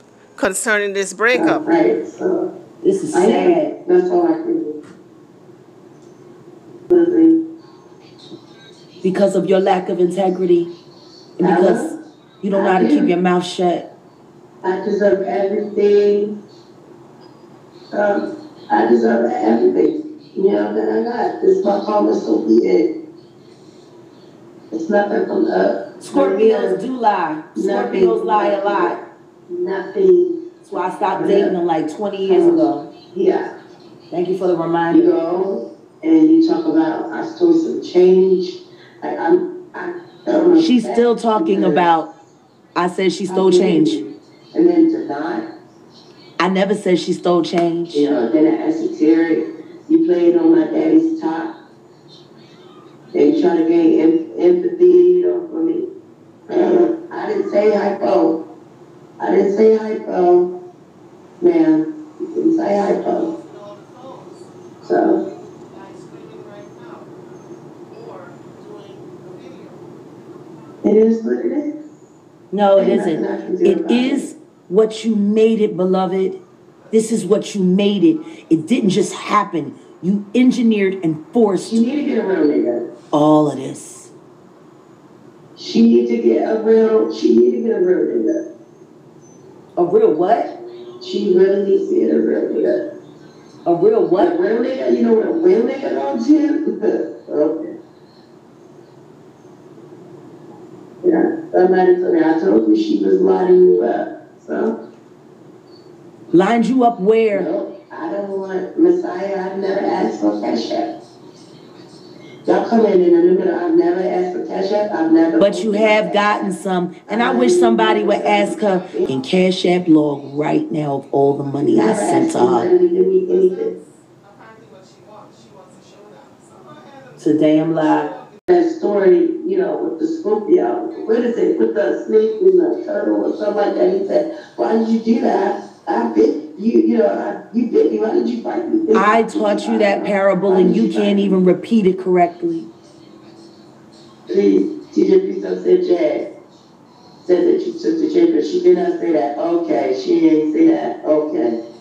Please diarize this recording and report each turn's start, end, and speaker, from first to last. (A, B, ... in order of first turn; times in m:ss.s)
0:00.4-0:01.6 A
0:01.3-0:02.5 B
0:02.8-0:03.8 C
0:03.1-0:04.8 B
0:06.9-0:07.4 B
0:09.0-0:10.7 C
0:11.4-0:13.9 C
0:11.4-0:11.9 B
0:12.5-0:13.1 B
0:14.6-0:16.4 B
0:17.9-0:22.9 B
0:24.7-0:26.8 B
0:26.0-0:29.0 C
0:27.6-0:30.4 B
0:30.6-0:32.9 C
0:31.1-0:31.5 B
0:32.3-0:33.5 B
0:34.1-0:35.1 C
0:34.9-0:41.9 B
0:40.6-0:42.1 C
0:42.8-0:44.0 C
0:43.3-0:45.5 B
0:46.4-0:48.1 C
0:47.9-0:51.5 B
0:53.1-0:55.9 B
0:56.5-0:58.4 B
0:59.2-1:00.5 B
1:01.4-1:03.3 B
1:03.0-1:07.1 A
1:04.8-1:05.2 B
1:07.9-1:09.9 A
1:10.8-1:11.7 B
1:12.5-1:21.8 C
1:12.8-1:14.3 B
1:16.8-1:17.6 A
1:18.2-1:18.6 A
1:21.7-1:22.9 B
1:23.1-1:24.1 C
1:25.6-1:28.4 B
1:29.8-1:30.5 C
1:31.0-1:32.8 B
1:33.7-1:34.3 C
1:34.2-1:37.7 B
1:41.0-1:44.8 B
1:46.3-1:47.5 C
1:47.3-1:50.9 B
1:52.5-1:56.5 B
1:55.4-2:02.7 C
1:57.1-1:59.1 B
1:58.8-1:59.2 A
2:01.7-2:03.7 B
2:03.3-2:08.4 A
2:07.2-2:08.1 C
2:08.5-2:21.4 B
2:18.9-2:22.7 C
2:24.3-2:26.3 B
2:27.2-2:31.6 B